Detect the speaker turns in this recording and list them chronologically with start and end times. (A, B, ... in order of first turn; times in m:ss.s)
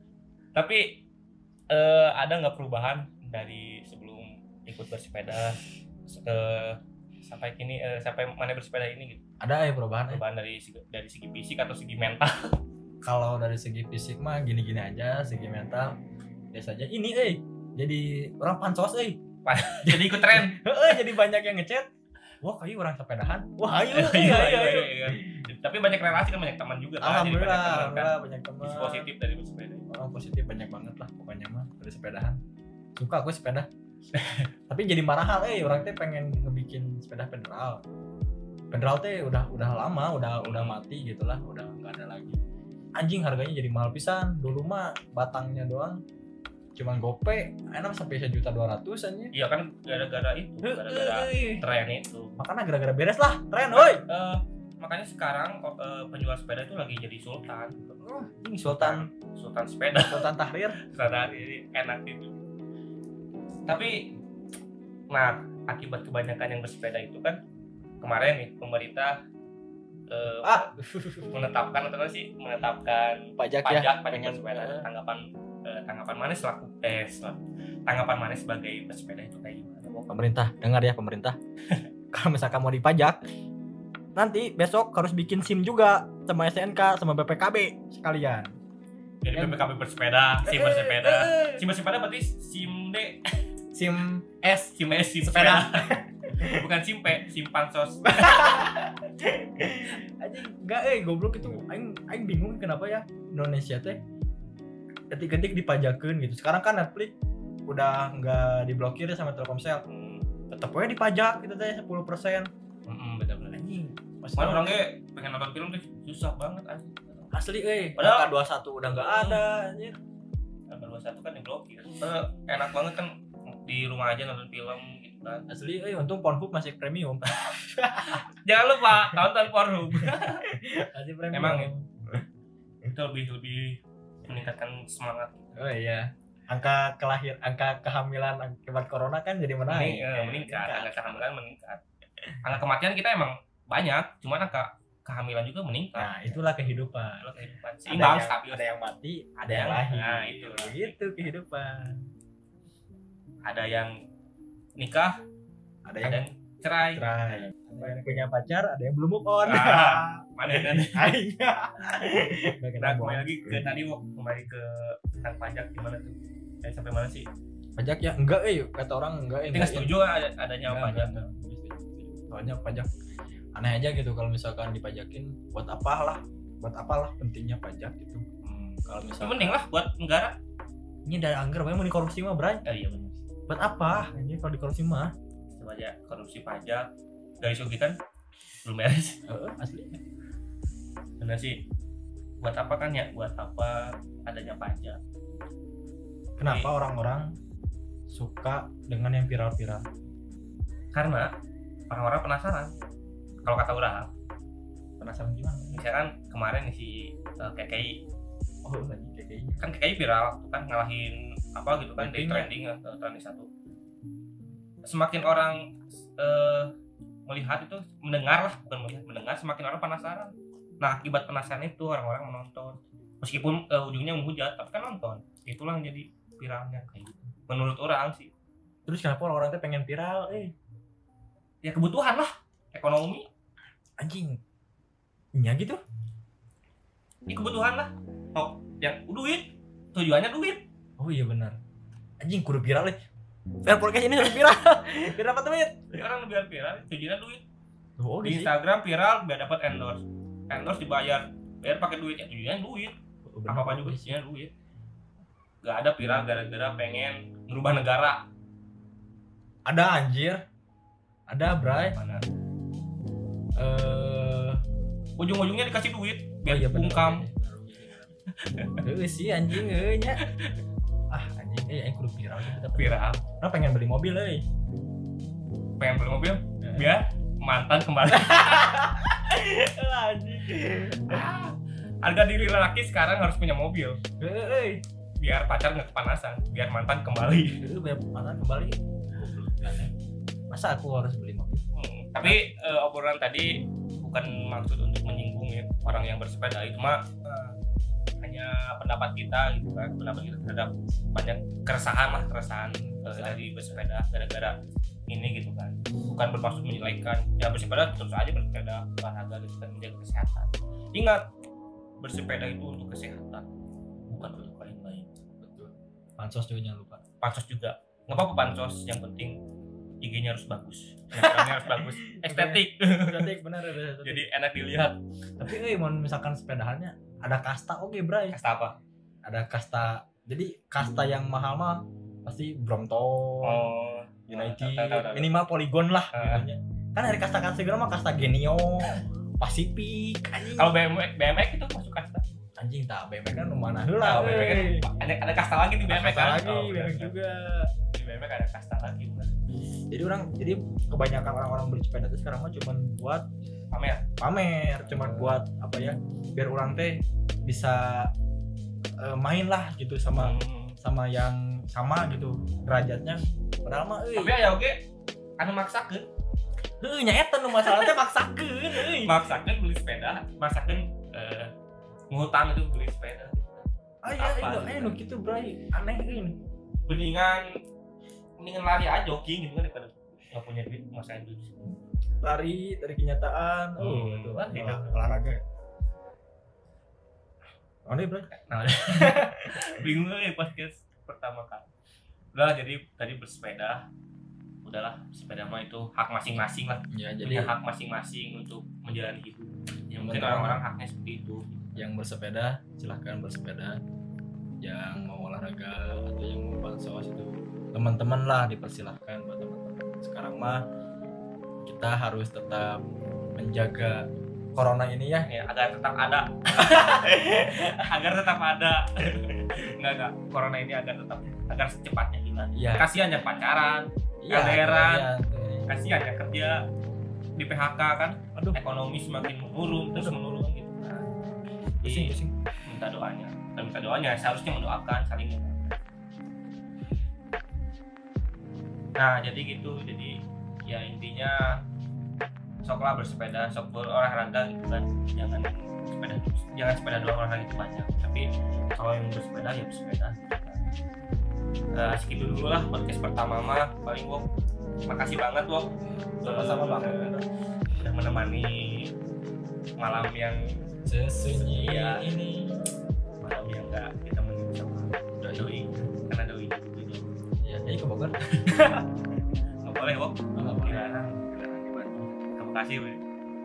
0:00.5-0:01.0 A
0:01.7-0:09.2 A
0:09.4-0:10.2 B
0:10.1-0:12.6 A
0:13.0-0:16.0 B
0:16.5-0:21.9 B
0:19.4-0:20.6 A
0:22.4-0:25.5 B
0:23.9-0:29.9 A
0:27.0-0:29.1 B
0:29.9-0:32.4 B
0:33.0-0:33.7 B
0:34.1-0:34.5 A
0:34.7-0:37.8 B
0:38.7-0:42.4 B
0:40.4-0:40.8 A
0:43.0-0:46.0 B
0:46.8-0:49.3 B
0:49.3-0:52.3 A
0:50.6-0:51.6 B
0:52.4-0:54.0 B
0:53.7-0:58.0 A
0:58.0-0:59.1 B
0:58.5-1:00.3 A
1:00.0-1:00.8 B
1:00.8-1:02.4 A
1:03.7-1:04.2 A
1:05.1-1:07.4 A
1:08.0-1:09.2 A
1:10.1-1:10.7 A
1:10.4-1:11.4 B
1:11.3-1:19.9 A
1:13.4-1:14.9 B
1:19.9-1:21.4 B
1:22.1-1:23.2 B
1:24.1-1:28.5 B
1:29.2-1:33.2 A
1:29.3-1:29.6 B
1:30.4-1:31.6 B
1:33.7-1:36.6 B
1:34.7-1:35.9 A
1:36.4-1:38.6 A
1:38.0-1:44.0 B
1:45.1-1:47.1 B
1:47.7-1:49.8 B
1:49.9-1:50.3 A
1:50.5-1:52.5 B
1:52.8-1:53.6 A
1:53.5-1:54.8 B
1:54.4-1:57.3 A
1:57.3-2:00.0 B
1:58.0-1:58.3 A
1:58.8-1:59.4 A
2:00.7-2:05.4 A
2:05.5-2:08.2 B
2:08.1-2:10.4 A
2:08.8-2:09.3 B
2:09.9-2:12.2 B
2:11.3-2:11.7 A
2:12.8-2:15.6 A
2:15.6-2:21.0 B
2:19.7-2:21.8 A
2:22.4-2:26.4 A
2:26.0-2:27.3 B
2:27.2-2:28.6 A
2:27.9-2:32.0 B
2:29.4-2:31.3 A
2:33.4-2:33.9 A
2:34.8-2:35.1 A
2:35.8-2:36.2 B
2:36.0-2:38.2 A
2:36.9-2:43.6 B
2:39.4-2:41.2 A
2:42.8-2:47.3 A
2:47.8-2:49.9 B
2:49.5-2:51.2 A
2:50.7-2:52.9 B
2:53.6-2:58.2 B
2:58.4-3:00.4 A
2:58.8-2:59.6 B
3:01.0-3:02.6 B
3:02.6-3:03.2 A
3:03.5-3:05.1 B
3:05.6-3:06.8 A
3:07.4-3:07.9 A
3:08.6-3:09.2 A
3:09.3-3:10.0 B
3:11.2-3:11.6 A
3:12.4-3:15.0 A
3:16.4-3:17.3 B
3:16.4-3:16.7 A
3:18.1-3:19.8 B
3:20.9-3:21.3 A
3:21.9-3:22.7 A
3:23.4-3:24.1 A
3:25.0-3:25.8 B
3:25.7-3:28.0 A
3:28.6-3:29.6 B
3:29.6-3:33.5 A
3:32.0-3:32.5 B
3:34.8-3:36.7 A
3:37.3-3:48.3 A
3:48.9-3:50.5 B
3:51.6-3:53.3 A
3:54.0-3:54.4 B
3:55.3-3:55.8 B
3:57.3-4:00.6 A
4:01.0-4:01.6 B
4:02.2-4:03.0 B
4:03.6-4:05.8 B
4:05.9-4:07.4 A
4:08.0-4:08.5 B
4:08.2-4:12.9 A
4:13.2-4:14.2 B
4:13.5-4:14.5 A
4:15.6-4:18.2 A
4:19.6-4:20.4 B
4:21.3-4:22.0 B
4:21.9-4:22.2 A
4:23.6-4:24.6 B
4:25.2-4:27.3 A
4:26.4-4:28.1 B
4:28.4-4:28.8 A
4:28.8-4:30.2 B
4:30.2-4:30.6 A
4:31.1-4:34.4 B
4:32.7-4:33.2 A
4:35.8-4:38.8 A
4:36.6-4:36.9 B
4:38.1-4:41.3 B
4:41.0-4:44.0 A
4:44.2-4:44.8 B
4:45.2-4:47.6 A
4:47.6-4:49.9 B
4:50.5-4:51.6 B
4:51.7-4:57.1 A
4:52.2-4:52.5 B
4:58.2-5:04.5 A
5:02.7-5:03.8 B
5:05.1-5:11.2 A
5:12.0-5:13.5 A
5:14.1-5:15.1 A
5:15.4-5:17.0 B
5:17.2-5:19.4 A
5:20.0-5:23.3 A
5:21.2-5:24.2 B
5:24.0-5:25.0 A
5:25.4-5:28.4 B
5:28.3-5:28.8 A
5:29.2-5:33.7 B
5:33.4-5:35.3 A
5:34.3-5:40.7 B
5:36.1-5:36.5 A
5:40.5-5:42.2 A
5:42.6-5:44.9 B
5:44.0-5:47.1 A
5:45.8-5:47.7 B
5:47.9-5:49.3 A
5:49.9-5:53.2 B
5:53.7-5:54.0 A
5:54.2-5:58.1 B
5:54.9-5:55.4 A
5:59.0-6:04.4 B
6:00.2-6:00.8 A
6:04.2-6:04.8 A
6:05.4-6:06.0 A
6:06.8-6:09.2 B
6:07.6-6:07.9 A
6:08.8-6:11.5 A
6:12.1-6:13.6 A
6:14.0-6:16.4 B
6:14.2-6:15.0 A
6:16.9-6:17.4 A
6:18.4-6:21.5 A
6:22.2-6:25.4 B
6:23.8-6:25.0 A
6:27.9-6:28.3 B
6:28.3-6:31.7 A
6:28.9-6:29.7 B
6:32.3-6:33.8 A
6:34.6-6:41.7 A
6:36.9-6:37.5 B
6:40.0-6:40.6 B
6:41.8-6:43.8 B
6:44.6-6:50.6 B
6:51.6-6:55.3 B
6:55.2-7:05.1 A
6:56.6-6:58.1 B
7:02.5-7:02.9 B
7:04.2-7:05.7 B
7:05.7-7:06.6 A
7:07.4-7:11.1 A
7:11.8-7:12.3 B
7:11.8-7:15.8 A
7:19.0-7:21.4 A
7:22.6-7:30.7 A
7:31.7-7:34.2 A
7:34.9-7:35.7 A
7:36.2-7:37.2 B
7:36.2-7:37.2 A
7:37.8-7:38.9 A
7:39.8-7:40.4 A
7:40.8-7:42.7 B
7:41.5-7:42.1 A
7:43.2-7:47.0 A
7:45.2-7:45.8 B
7:47.4-7:48.9 B
7:49.6-7:51.2 A
7:50.3-7:52.1 B
7:52.2-7:53.0 A